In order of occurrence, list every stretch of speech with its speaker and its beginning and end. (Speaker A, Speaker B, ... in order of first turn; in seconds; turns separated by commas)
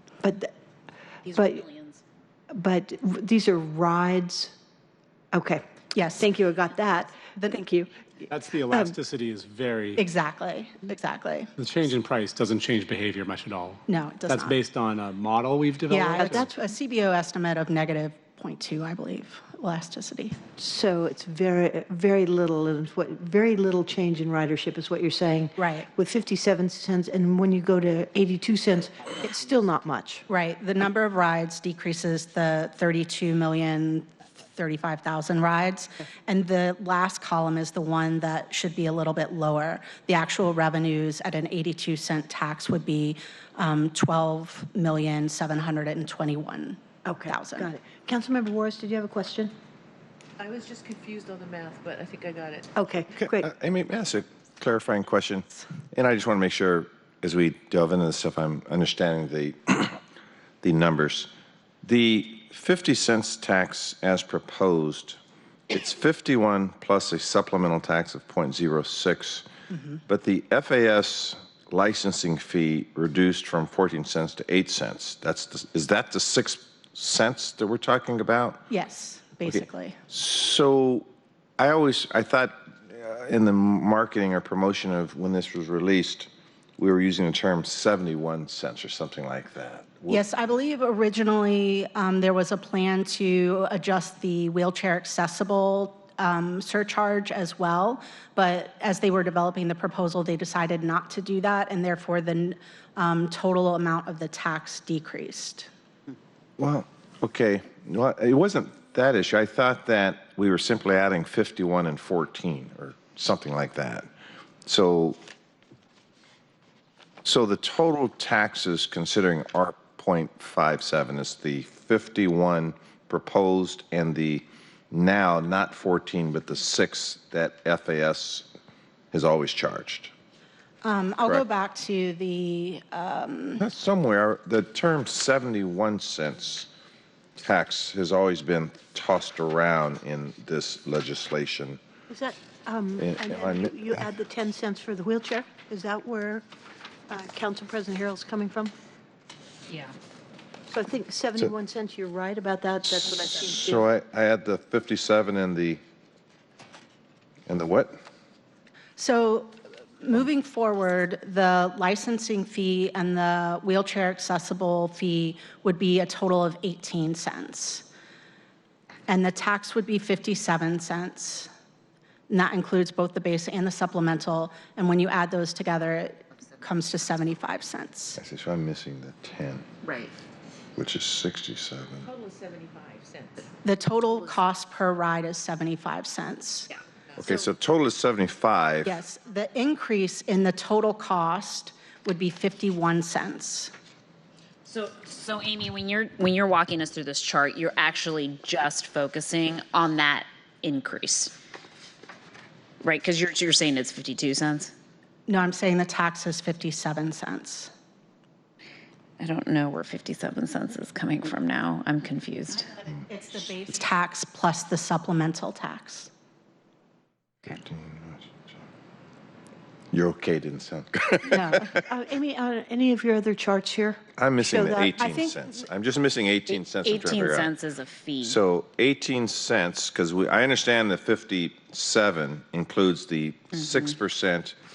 Speaker A: 0.2-0.5, Speaker B: 1.2-2.0, Speaker A: 1.3-1.7, Speaker A: 2.5-4.6, Speaker A: 5.3-5.7, Speaker C: 5.9-6.3, Speaker A: 6.2-7.7, Speaker C: 7.3-7.9, Speaker D: 8.3-10.0, Speaker A: 8.7-9.0, Speaker C: 10.0-11.5, Speaker D: 11.6-16.5, Speaker C: 13.9-14.6, Speaker C: 15.9-20.4, Speaker A: 16.2-16.5, Speaker A: 20.6-30.3, Speaker C: 25.6-25.9, Speaker C: 30.3-47.7, Speaker A: 47.0-49.6, Speaker E: 50.4-52.7, Speaker A: 52.8-53.5, Speaker F: 53.2-60.0, Speaker F: 60.6-61.3, Speaker F: 61.8-65.2, Speaker F: 65.7-69.5, Speaker C: 69.7-70.0, Speaker F: 70.1-78.7, Speaker C: 78.7-80.0, Speaker F: 79.5-81.1, Speaker F: 81.6-90.2, Speaker C: 90.1-105.7, Speaker F: 106.6-114.1, Speaker F: 114.7-115.2, Speaker F: 117.2-128.5, Speaker F: 129.1-130.1, Speaker C: 130.8-133.6, Speaker F: 133.6-136.7, Speaker F: 137.4-141.8, Speaker A: 142.1-146.5, Speaker F: 143.0-144.0, Speaker A: 147.1-148.8, Speaker B: 149.7-149.9, Speaker A: 150.7-153.9, Speaker F: 153.5-155.8, Speaker F: 157.5-158.0, Speaker C: 159.0-167.9, Speaker C: 169.1-171.5, Speaker C: 172.3-178.2, Speaker F: 178.2-179.7, Speaker B: 179.8-180.1, Speaker F: 180.8-182.1, Speaker E: 182.0-183.6, Speaker C: 183.6-186.7, Speaker E: 187.1-187.4, Speaker F: 187.2-189.0, Speaker C: 188.8-193.7, Speaker B: 194.7-201.3, Speaker B: 202.8-204.7, Speaker C: 205.3-207.7, Speaker B: 209.2-212.7, Speaker C: 213.1-216.1, Speaker F: 217.4-218.4, Speaker F: 219.9-221.7, Speaker C: 221.3-221.7, Speaker A: 221.7-225.3, Speaker F: 224.2-227.5, Speaker B: 226.7-228.4, Speaker F: 228.2-234.6